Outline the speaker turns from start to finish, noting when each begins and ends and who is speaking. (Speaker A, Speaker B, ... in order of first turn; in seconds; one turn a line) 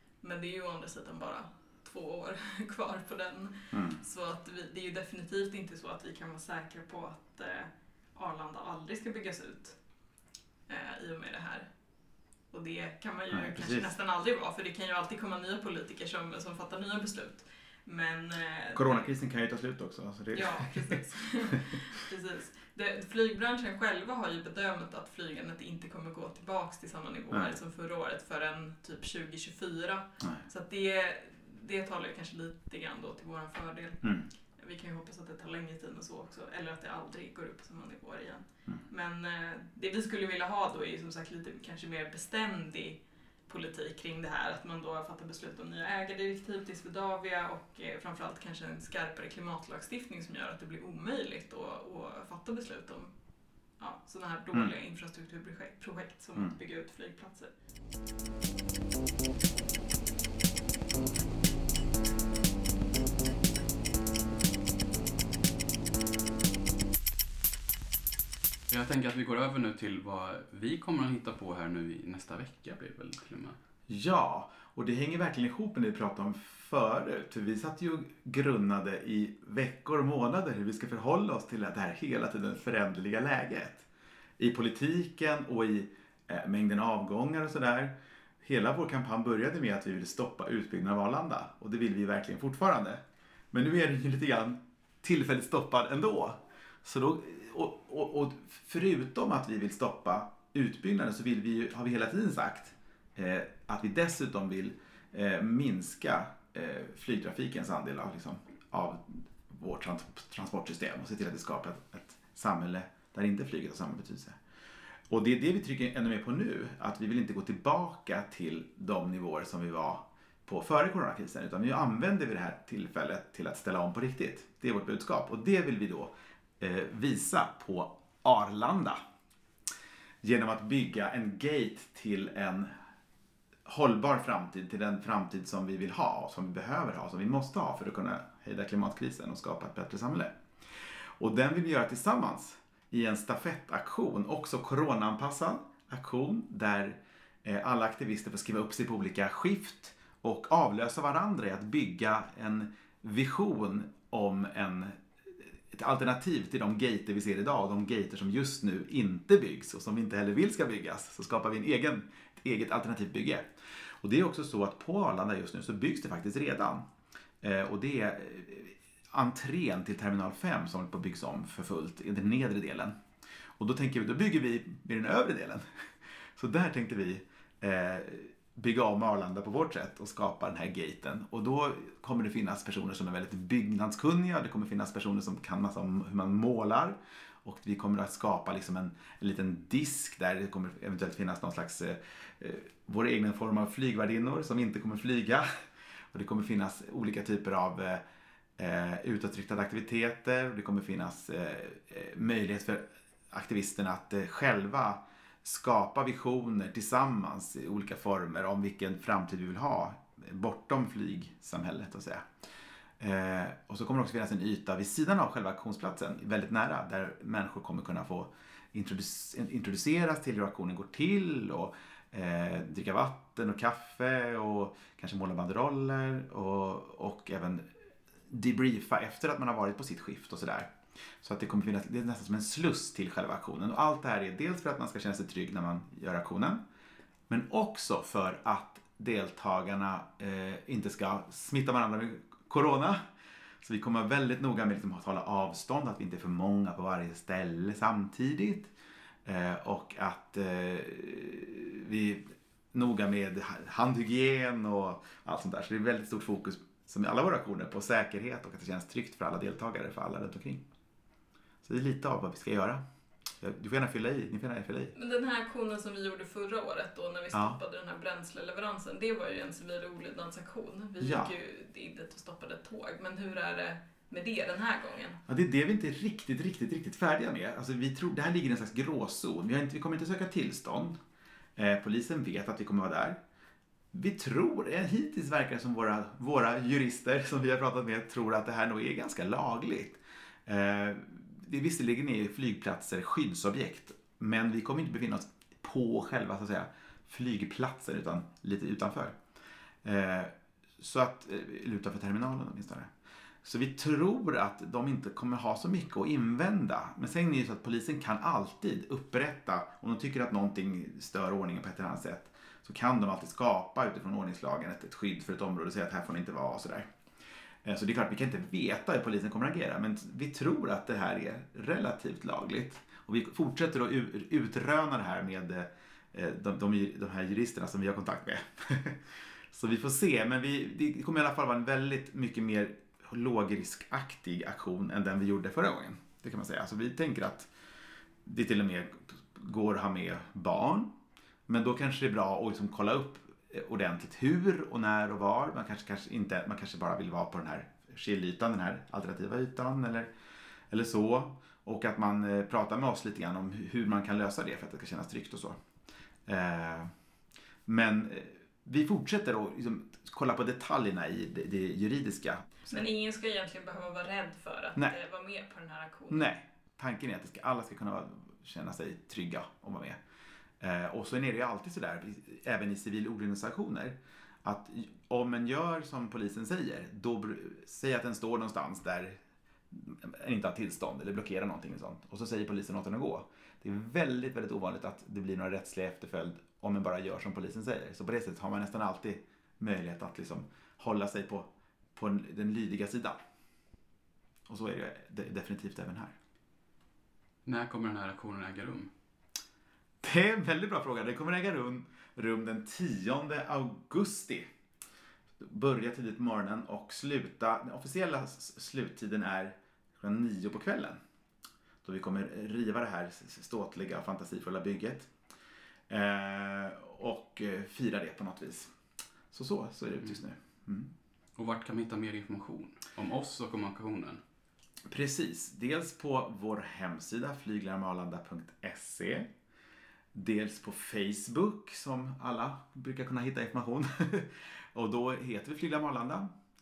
Speaker A: 0.2-9.8
Speaker B: 3.7-4.0
Speaker A: 10.7-11.7
Speaker A: 12.5-19.1
Speaker B: 13.3-13.9
Speaker B: 18.7-21.0
Speaker A: 20.3-53.1
Speaker B: 34.0-34.3
Speaker A: 53.8-57.5
Speaker C: 68.7-73.6
Speaker B: 73.9-83.9
Speaker B: 84.4-93.0
Speaker B: 93.5-114.4
Speaker B: 115.1-129.0
Speaker B: 130.2-132.7
Speaker B: 133.7-166.9
Speaker B: 167.4-172.9
Speaker B: 173.6-175.6
Speaker B: 176.3-195.5
Speaker B: 196.1-198.0
Speaker B: 198.6-212.3
Speaker B: 213.0-227.7
Speaker B: 228.3-236.6
Speaker B: 237.3-243.0
Speaker B: 243.6-248.7
Speaker B: 249.2-260.6
Speaker B: 261.6-262.8
Speaker B: 263.4-264.9
Speaker A: 264.9-275.2
Speaker B: 267.3-267.6
Speaker B: 271.0-271.3
Speaker B: 275.3-281.0
Speaker B: 281.6-283.2
Speaker B: 283.9-299.2
Speaker B: 299.8-302.9
Speaker B: 303.4-316.9
Speaker B: 317.6-337.5
Speaker B: 338.2-350.1
Speaker B: 350.7-355.6
Speaker B: 356.2-356.9
Speaker B: 357.6-362.8
Speaker A: 362.6-366.3
Speaker B: 366.1-370.0
Speaker B: 370.6-379.2
Speaker B: 379.7-393.2
Speaker B: 394.5-396.1
Speaker C: 397.4-398.9
Speaker B: 400.0-404.5
Speaker B: 405.4-411.0
Speaker B: 411.8-415.1
Speaker B: 415.9-418.7
Speaker B: 419.3-420.9
Speaker C: 421.4-424.2
Speaker B: 424.9-429.3
Speaker B: 430.1-436.3